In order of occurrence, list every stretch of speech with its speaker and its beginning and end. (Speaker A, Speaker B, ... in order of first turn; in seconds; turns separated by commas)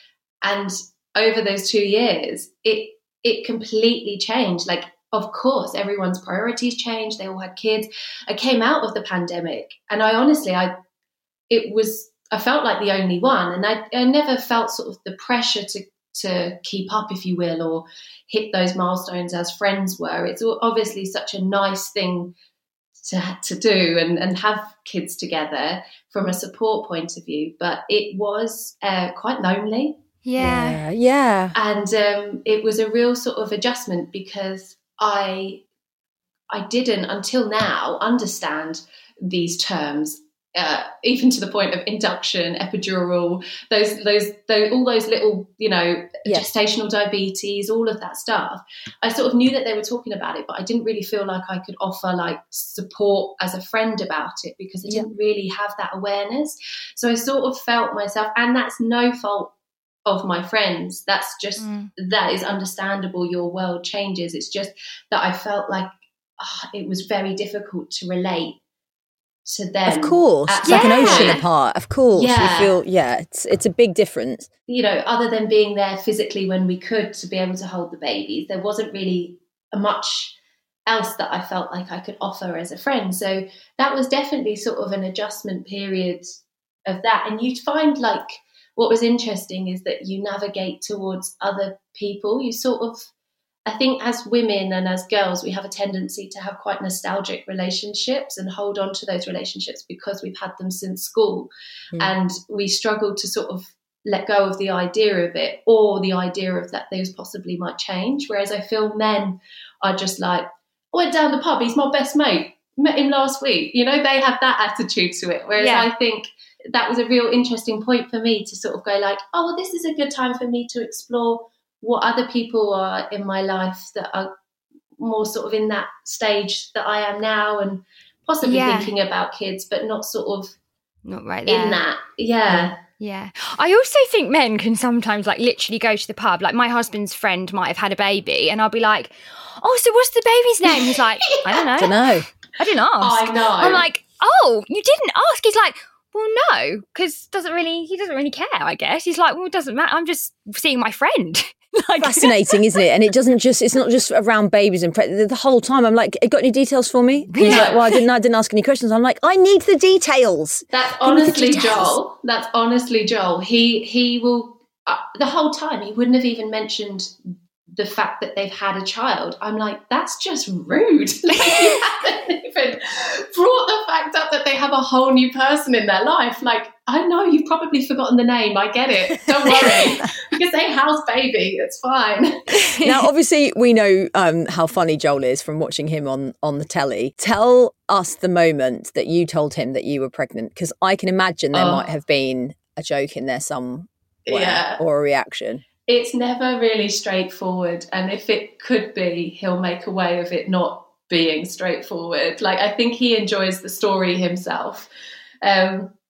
Speaker A: 0.4-10.7, Speaker A: 11.5-22.3, Speaker A: 23.0-30.0, Speaker B: 30.2-30.8, Speaker C: 30.4-31.6, Speaker A: 31.5-35.6, Speaker A: 36.5-59.5, Speaker A: 60.0-68.6, Speaker B: 61.6-61.9, Speaker A: 69.5-71.4, Speaker C: 69.8-74.5, Speaker B: 70.6-71.4, Speaker A: 72.1-72.7, Speaker A: 74.7-80.3, Speaker A: 80.9-86.3, Speaker A: 86.8-93.1, Speaker A: 93.7-124.3, Speaker B: 115.5-115.9, Speaker A: 125.0-130.5, Speaker B: 128.4-128.9, Speaker B: 131.0-131.8, Speaker A: 131.4-132.8, Speaker B: 133.0-152.7, Speaker A: 140.8-141.6, Speaker C: 141.8-142.3, Speaker A: 143.0-143.8, Speaker C: 152.0-161.9, Speaker B: 157.3-158.0, Speaker A: 157.4-157.8, Speaker A: 160.7-167.1, Speaker B: 161.5-161.9, Speaker A: 167.7-182.6, Speaker B: 171.5-171.7, Speaker C: 179.3-180.1, Speaker B: 182.6-183.0, Speaker C: 182.8-195.6, Speaker A: 191.5-191.8, Speaker A: 194.3-194.8, Speaker A: 195.9-204.9, Speaker A: 205.4-205.9